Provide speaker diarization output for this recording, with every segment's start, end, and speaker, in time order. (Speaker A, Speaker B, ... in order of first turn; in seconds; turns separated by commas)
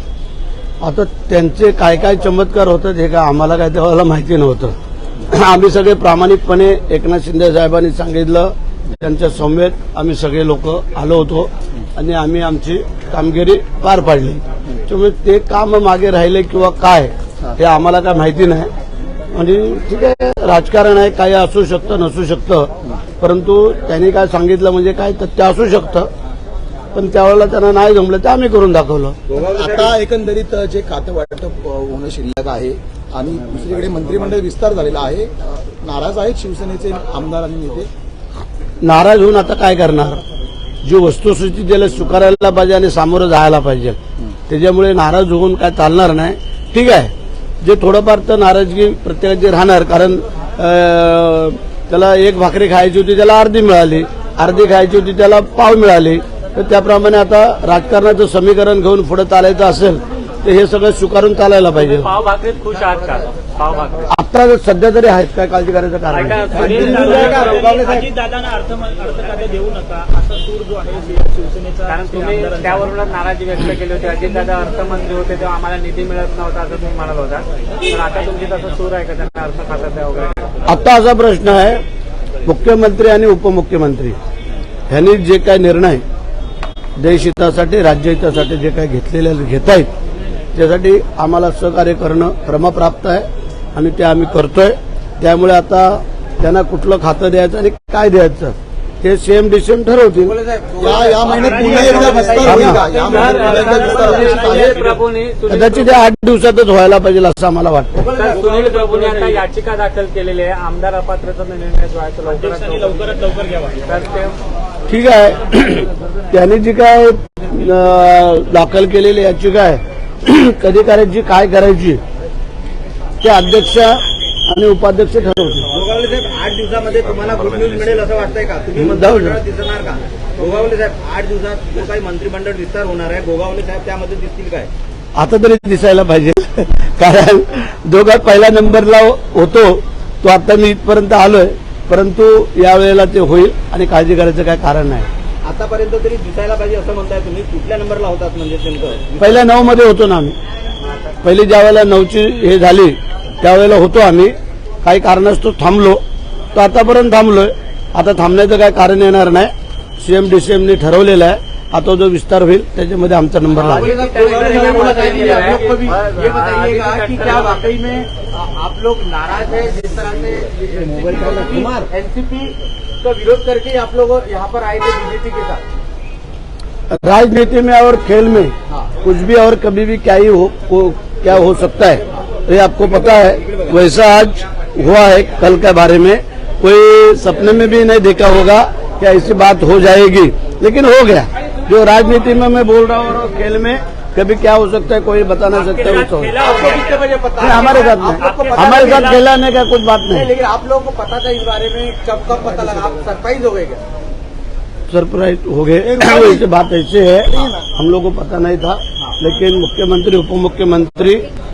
Speaker A: 0.8-4.8, Speaker A: 5.3-18.7, Speaker A: 19.3-26.1, Speaker A: 26.9-29.2, Speaker B: 29.3-30.0, Speaker C: 29.3-37.9, Speaker A: 38.8-40.2, Speaker A: 40.8-44.0, Speaker A: 44.5-62.1, Speaker D: 61.8-64.1, Speaker A: 64.1-67.1, Speaker D: 66.1-67.7, Speaker C: 66.5-67.2, Speaker E: 66.5-72.9, Speaker B: 67.0-68.1, Speaker D: 71.9-80.5, Speaker A: 80.7-81.8, Speaker A: 82.5-84.2, Speaker A: 84.9-86.0, Speaker A: 87.0-89.9, Speaker A: 90.5-100.3, Speaker B: 100.2-103.4, Speaker C: 100.8-104.8, Speaker E: 101.3-102.3, Speaker A: 102.4-102.8, Speaker D: 103.0-106.0, Speaker E: 103.0-105.0, Speaker A: 105.5-108.1, Speaker B: 108.0-109.4, Speaker D: 108.1-113.1, Speaker E: 112.3-113.8, Speaker D: 113.8-114.4, Speaker A: 114.9-122.0, Speaker A: 123.2-125.7, Speaker B: 125.7-134.7, Speaker A: 128.8-129.4, Speaker A: 135.2-145.1, Speaker B: 145.4-149.5, Speaker A: 149.2-150.4, Speaker A: 151.2-156.0, Speaker A: 156.5-163.9, Speaker D: 163.5-167.8, Speaker B: 163.7-175.6, Speaker C: 164.4-165.5, Speaker C: 170.8-171.9, Speaker A: 176.9-196.4, Speaker B: 183.4-183.7, Speaker D: 195.5-197.0, Speaker B: 196.4-199.2, Speaker A: 197.4-200.3, Speaker D: 198.1-199.2, Speaker B: 200.1-203.8, Speaker A: 204.9-211.2, Speaker C: 205.8-206.4